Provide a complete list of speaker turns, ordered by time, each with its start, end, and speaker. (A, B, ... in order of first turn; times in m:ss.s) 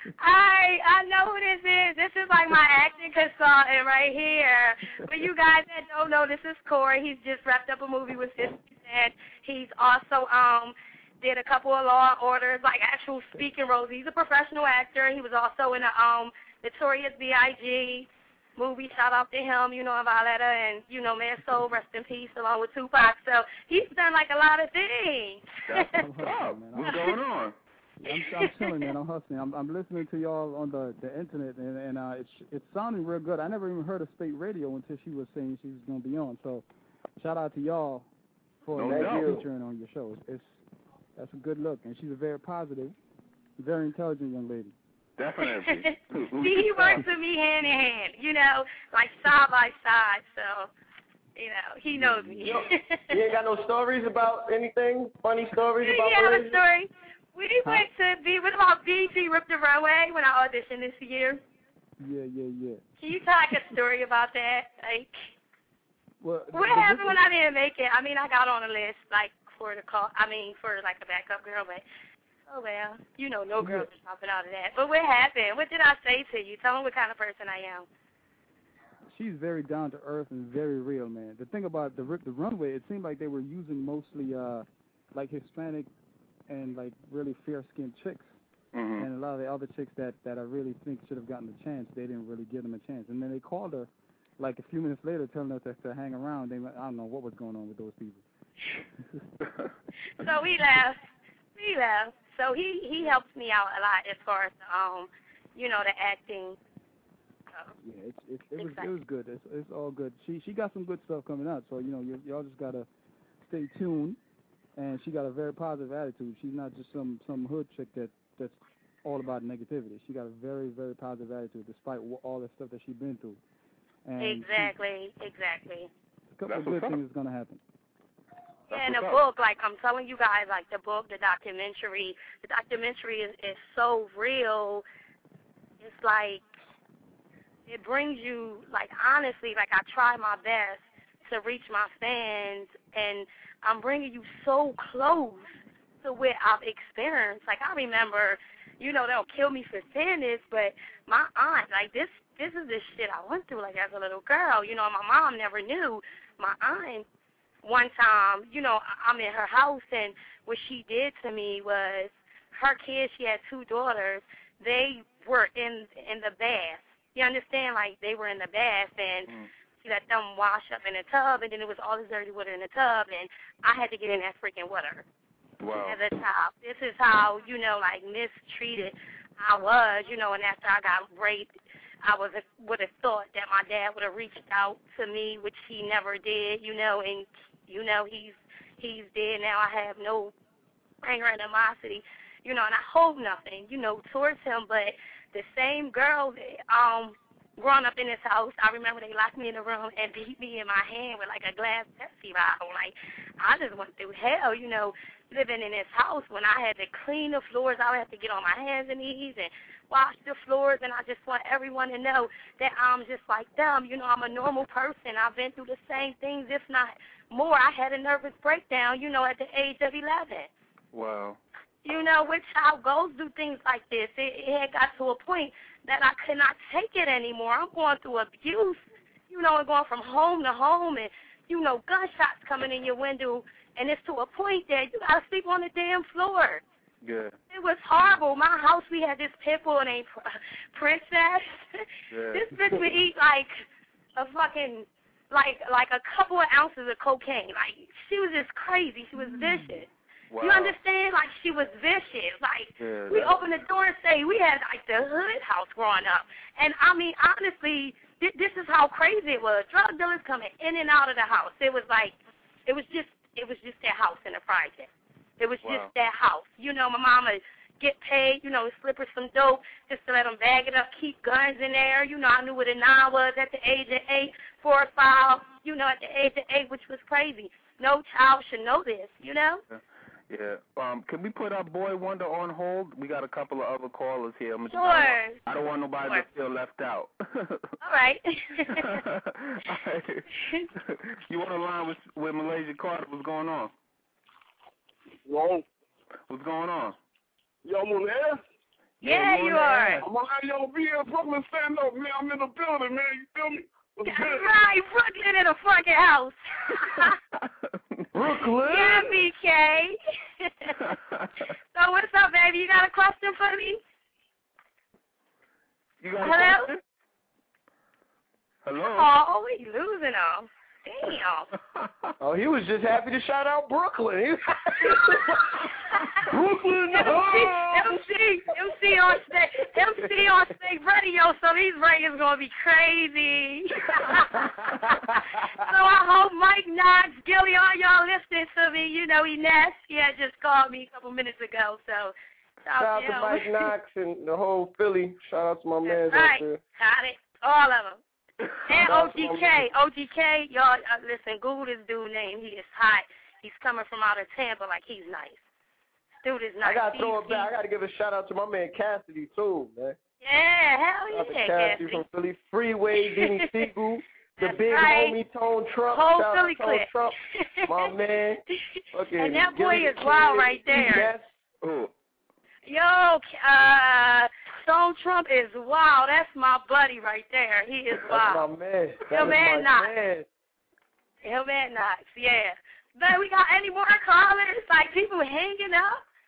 0:00.2-0:26.0 A
0:25.7-0:27.6 B
0:26.0-0:26.9 C
0:28.0-0:36.6 C
0:28.1-0:28.5 A
0:37.2-0:38.1 C
0:38.6-0:40.6 C
0:38.8-0:39.4 B
0:38.8-0:39.4 D
0:41.2-0:43.0 C
0:43.6-0:44.7 C
0:45.2-0:47.0 B
0:45.5-0:50.7 A
0:51.4-0:53.1 A
0:52.0-0:52.6 B
0:52.4-0:56.6 D
0:55.8-1:01.4 A
1:02.0-1:02.8 C
1:03.0-1:05.1 A
1:06.2-1:07.2 C
1:06.5-1:11.8 A
1:12.5-1:17.9 A
1:13.6-1:13.9 C
1:19.1-1:25.9 C
1:26.5-1:28.3 C
1:28.7-1:29.1 B
1:29.0-1:38.2 C
1:40.2-1:41.0 A
1:41.6-1:46.6 A
1:47.8-1:52.9 C
1:48.6-1:48.9 A
1:53.4-1:54.2 C
1:54.8-2:03.4 C
2:04.1-2:04.8 C
2:04.2-2:05.9 A
2:06.3-2:07.6 C
2:06.5-2:07.0 B
2:08.7-2:09.2 B
2:08.7-2:14.8 A
2:15.8-2:16.4 A
2:17.7-2:25.5 A
2:26.0-2:37.0 A
2:37.6-2:49.3 A
2:49.8-2:55.0 A
2:55.6-2:56.0 B
2:55.8-3:10.3 A
3:11.0-3:40.5 A
3:40.9-3:41.4 B
3:41.8-3:48.8 A
3:49.3-3:56.6 A
3:57.0-3:57.4 B
3:57.5-4:03.6 A
4:02.1-4:02.7 B
4:04.2-4:09.9 A
4:10.3-4:10.8 B
4:10.4-4:39.6 A
4:12.8-4:13.4 B
4:25.6-4:25.9 B
4:39.7-4:47.7 B
4:44.7-4:45.4 A
4:47.8-4:49.0 A
4:48.7-4:53.7 B
4:55.2-4:55.6 E
4:56.3-4:57.0 B
4:57.6-4:58.4 E
4:59.0-5:00.0 B
4:59.0-5:00.0 A
5:00.0-5:04.5 E
5:04.0-5:07.1 A
5:07.3-5:08.3 B
5:08.1-5:09.2 D
5:08.7-5:10.8 A
5:10.8-5:11.5 B
5:11.8-5:13.8 A
5:16.0-5:16.8 B
5:16.2-5:16.7 A
5:18.6-5:19.1 B
5:18.8-5:21.5 A
5:21.7-5:22.1 B
5:22.2-5:28.0 D
5:26.0-5:26.2 A
5:26.9-5:43.7 A
5:27.0-5:27.6 E
5:34.0-5:35.5 D
5:42.8-5:46.6 D
5:45.9-5:48.0 A
5:48.7-5:55.4 A
5:48.8-5:49.6 D
5:56.2-5:57.5 A
5:56.6-6:00.0 D
6:00.2-6:02.0 A
6:01.1-6:11.3 D
6:04.4-6:05.2 A
6:05.9-6:06.9 A
6:08.8-6:11.1 A
6:11.6-6:11.9 B
6:12.6-6:18.4 A
6:18.0-6:20.3 D
6:19.1-6:19.9 A
6:21.2-6:26.0 A